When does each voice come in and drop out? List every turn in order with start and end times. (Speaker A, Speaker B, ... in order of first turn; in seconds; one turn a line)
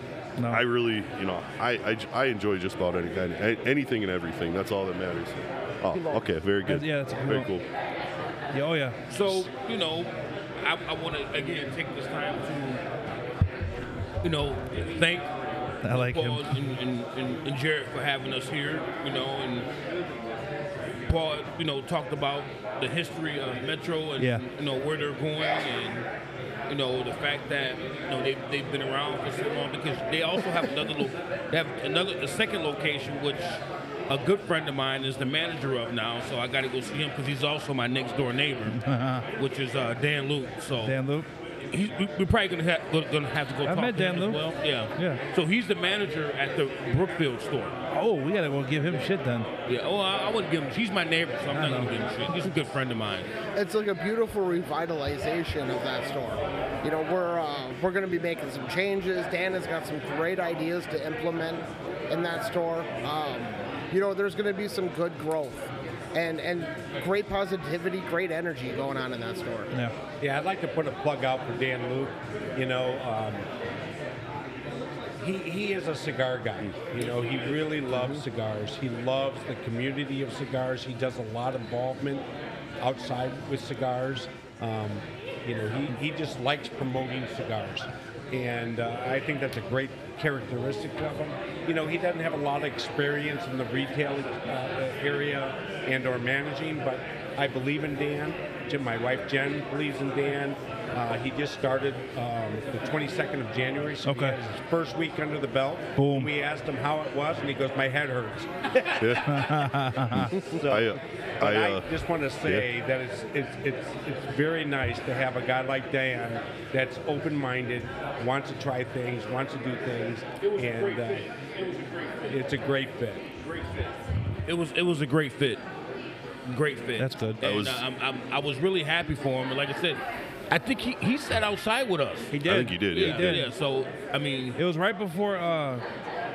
Speaker A: 0.4-0.6
Speaker B: 0.5-7.6
Speaker C: 5.9-6.2
Speaker A: 6.7-7.5
Speaker A: 8.5-9.5
Speaker D: 9.1-12.8
Speaker D: 14.2-15.3
Speaker A: 15.8-16.6
Speaker D: 15.8-19.7
Speaker D: 21.1-26.1
Speaker A: 24.2-24.4
Speaker D: 26.7-38.8
Speaker A: 38.7-39.3
Speaker D: 39.4-41.0
Speaker A: 40.8-41.3
Speaker D: 41.7-47.8
Speaker A: 43.6-45.2
Speaker A: 47.9-49.5
Speaker D: 49.7-53.3
Speaker A: 51.5-51.9
Speaker C: 53.6-69.7
Speaker E: 70.2-73.5
Speaker E: 75.2-82.3
Speaker E: 82.8-109.2
Speaker A: 104.0-104.4
Speaker A: 106.0-106.3
Speaker B: 109.0-109.3
Speaker A: 109.3-110.4
Speaker B: 110.1-111.9
Speaker E: 110.4-121.3
Speaker D: 120.4-122.4
Speaker E: 122.3-123.3
Speaker D: 123.4-123.9
Speaker D: 124.5-125.6
Speaker D: 126.5-134.6
Speaker A: 127.0-127.4
Speaker B: 127.4-127.8
Speaker A: 132.3-133.5
Speaker B: 132.4-133.4
Speaker A: 134.6-135.8